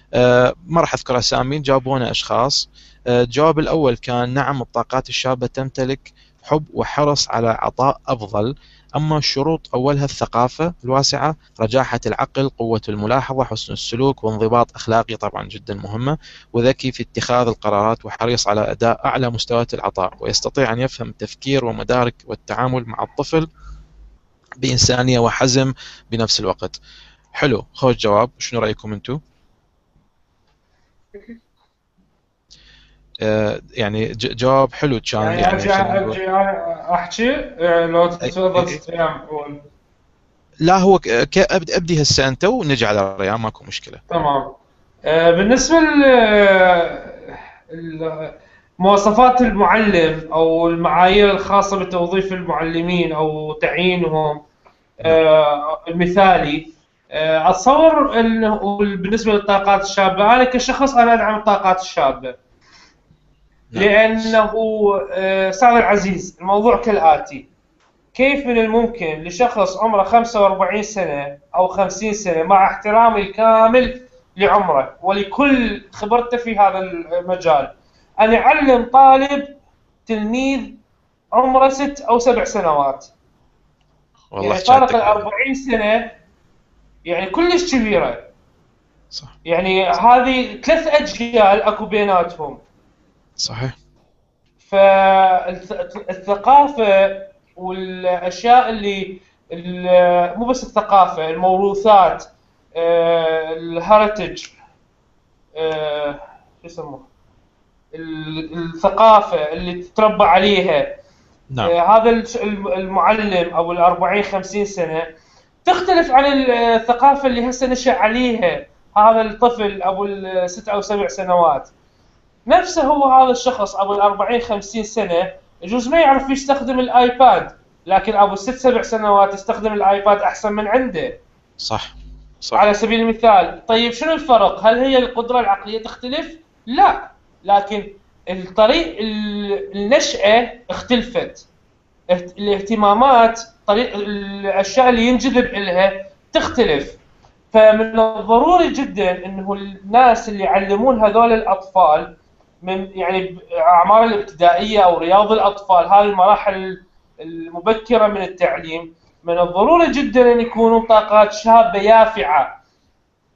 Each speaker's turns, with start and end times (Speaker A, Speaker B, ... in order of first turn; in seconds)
Speaker A: 0.1-23.5, 24.6-26.7, 27.3-29.2, 33.2-36.2, 38.2-38.8, 40.6-44.0, 63.7-64.3, 84.3-85.2, 93.4-93.7, 131.6-132.6
Speaker B: 35.2-39.6, 44.1-44.5, 45.0-54.4, 55.0-62.3, 63.8-67.5, 68.1-79.5, 80.1-80.8, 81.3-83.1, 84.4-86.2, 87.0-88.3, 89.5-92.6, 94.6-104.5, 105.5-107.1, 107.9-110.9, 111.6-115.0, 115.6-121.7, 122.5-131.2, 132.5-141.4, 142.1-147.0, 147.5-162.6